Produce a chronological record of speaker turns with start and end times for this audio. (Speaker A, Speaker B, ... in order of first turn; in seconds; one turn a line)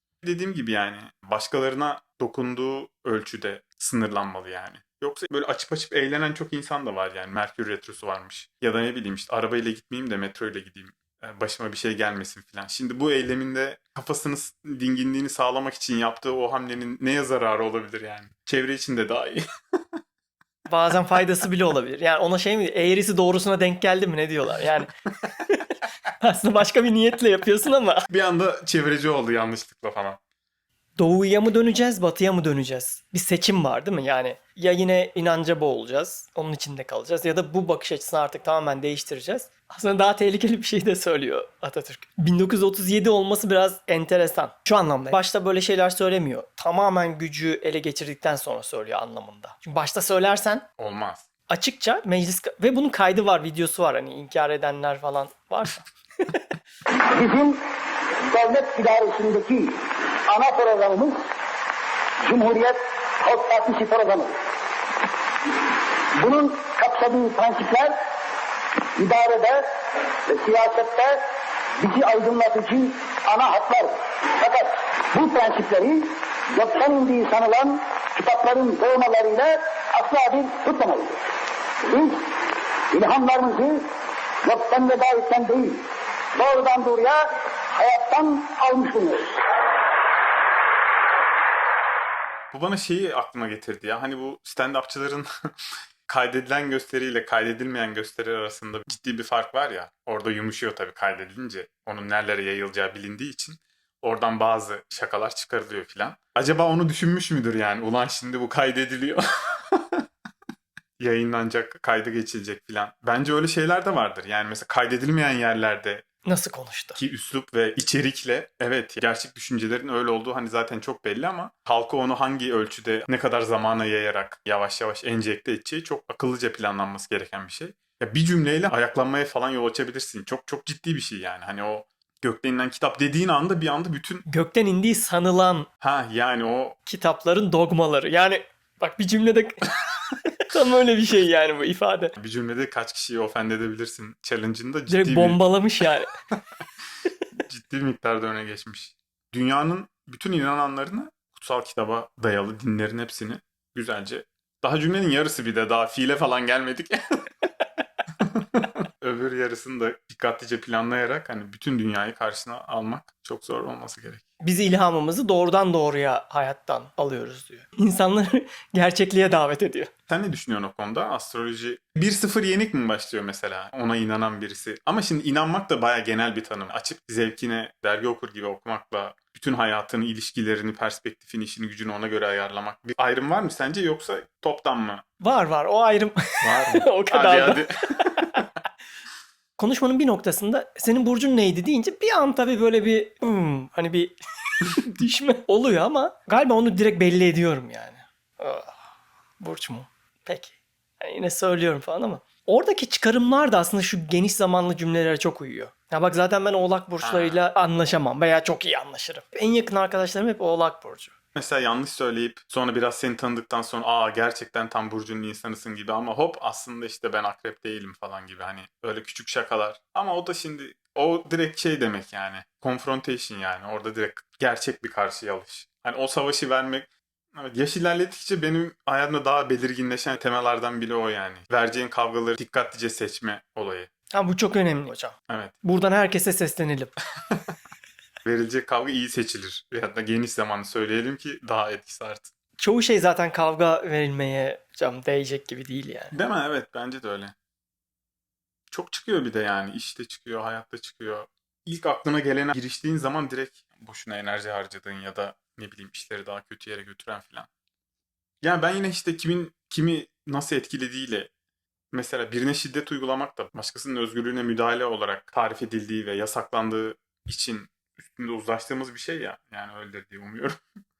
Speaker A: 0.2-19.4
Speaker B: 20.7-28.1
Speaker A: 28.1-30.2
Speaker B: 31.0-50.6
Speaker A: 50.8-51.2
Speaker B: 51.5-56.4
Speaker C: 57.0-57.6
Speaker C: 58.2-61.2
Speaker C: 62.2-64.3
Speaker C: 66.1-68.0
Speaker C: 68.9-71.2
Speaker C: 71.8-81.2
Speaker C: 81.8-82.4
Speaker C: 82.9-83.9
Speaker C: 84.4-85.8
Speaker C: 86.3-89.4
Speaker A: 92.5-95.3
Speaker A: 96.1-110.0
Speaker A: 111.0-116.0
Speaker B: 116.2-117.0
Speaker A: 117.0-134.2
Speaker B: 134.3-135.7
Speaker A: 135.8-136.8
Speaker B: 136.8-142.1
Speaker A: 142.2-145.4
Speaker B: 144.9-146.1
Speaker A: 147.4-157.4
Speaker A: 158.2-164.2
Speaker B: 164.4-169.9
Speaker A: 170.1-185.0
Speaker B: 185.2-188.4
Speaker A: 186.4-188.4
Speaker B: 189.6-198.8
Speaker B: 199.4-211.1
Speaker A: 207.0-207.4
Speaker A: 211.3-233.9
Speaker B: 234.1-236.9
Speaker A: 235.3-235.5
Speaker A: 238.2-242.3
Speaker B: 242.6-246.1
Speaker A: 246.1-247.3
Speaker A: 248.7-257.5
Speaker A: 258.4-261.3
Speaker A: 261.9-270.6